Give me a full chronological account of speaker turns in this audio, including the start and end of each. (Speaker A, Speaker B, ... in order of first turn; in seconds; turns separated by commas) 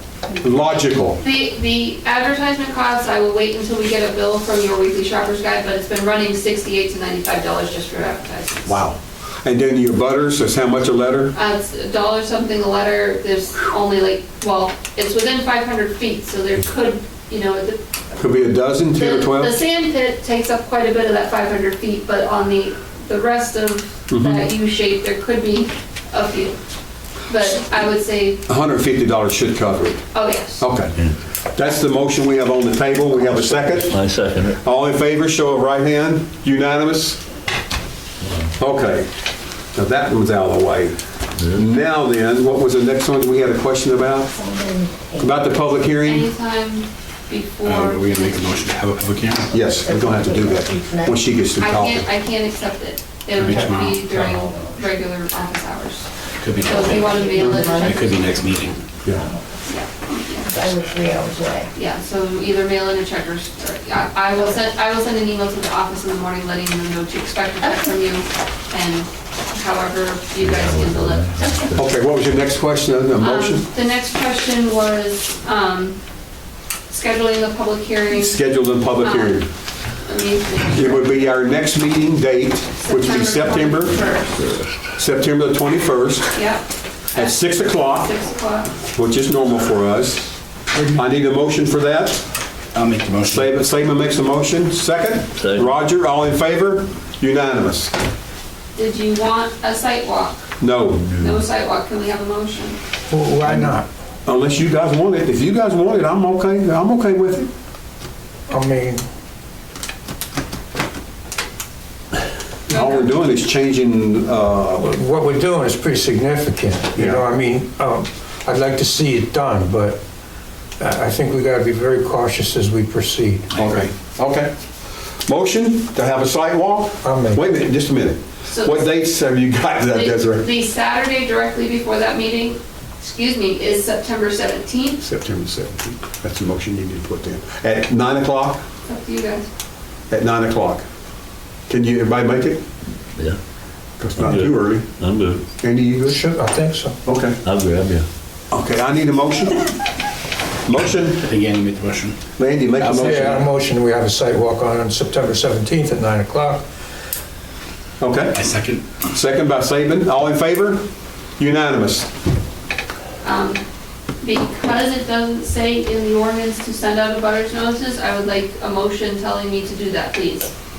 Speaker A: 0.3-8.8, Speaker B: 0.4-1.2, Speaker B: 8.7-11.3, Speaker A: 11.3-17.8, Speaker B: 18.2-19.6, Speaker A: 18.9-26.6, Speaker B: 24.1-24.5, Speaker A: 27.3-28.4, Speaker B: 28.5-30.0, Speaker A: 30.1-30.7, Speaker B: 30.6-30.9, Speaker B: 31.6-34.0, Speaker C: 33.9-34.6, Speaker B: 34.6-37.2, Speaker C: 38.2-38.5, Speaker B: 38.6-39.1, Speaker B: 39.7-41.0, Speaker B: 41.5-44.3, Speaker D: 44.3-45.3, Speaker B: 45.2-46.3, Speaker A: 46.0-48.6, Speaker E: 47.6-49.5, Speaker B: 49.5-52.1, Speaker D: 49.6-51.2, Speaker A: 51.6-56.1, Speaker E: 53.4-54.0, Speaker E: 56.4-57.2, Speaker A: 56.6-58.1, Speaker D: 56.7-59.4, Speaker E: 57.8-58.8, Speaker A: 59.7-60.6, Speaker D: 60.5-61.7, Speaker A: 61.7-71.4, Speaker C: 70.4-71.9, Speaker D: 71.4-71.7, Speaker B: 71.7-73.7, Speaker A: 73.2-76.0, Speaker A: 76.9-78.4, Speaker B: 78.1-79.5, Speaker A: 79.0-81.2, Speaker B: 80.7-84.0, Speaker A: 82.8-84.5, Speaker C: 84.4-84.7, Speaker B: 85.0-86.3, Speaker A: 86.3-88.7, Speaker B: 87.1-88.1, Speaker B: 88.9-92.2, Speaker E: 92.7-93.5, Speaker B: 93.2-97.9, Speaker C: 95.4-95.7, Speaker A: 98.8-100.5, Speaker B: 100.6-101.0, Speaker A: 101.1-102.8, Speaker F: 103.1-103.9, Speaker B: 103.4-103.7, Speaker B: 104.3-107.5, Speaker F: 108.5-109.0, Speaker B: 112.7-114.9, Speaker A: 112.7-113.1, Speaker F: 114.8-120.0, Speaker B: 117.0-117.2, Speaker F: 120.8-123.5, Speaker B: 123.5-124.5, Speaker B: 125.3-130.4, Speaker F: 127.0-127.4, Speaker A: 128.5-128.9, Speaker A: 129.9-135.0, Speaker B: 135.0-138.7, Speaker A: 138.9-139.5, Speaker B: 140.1-140.9, Speaker B: 141.7-142.6, Speaker B: 144.0-144.9, Speaker C: 144.2-145.4, Speaker B: 145.6-146.2, Speaker F: 146.1-147.0, Speaker B: 147.1-147.4, Speaker C: 147.4-148.1, Speaker B: 148.5-149.6, Speaker B: 150.7-151.3, Speaker E: 151.2-152.2, Speaker B: 152.4-153.5, Speaker F: 152.8-156.6, Speaker B: 158.0-158.4, Speaker E: 158.3-159.1, Speaker B: 159.1-160.8, Speaker B: 161.4-162.1, Speaker A: 163.2-163.6, Speaker A: 164.2-170.5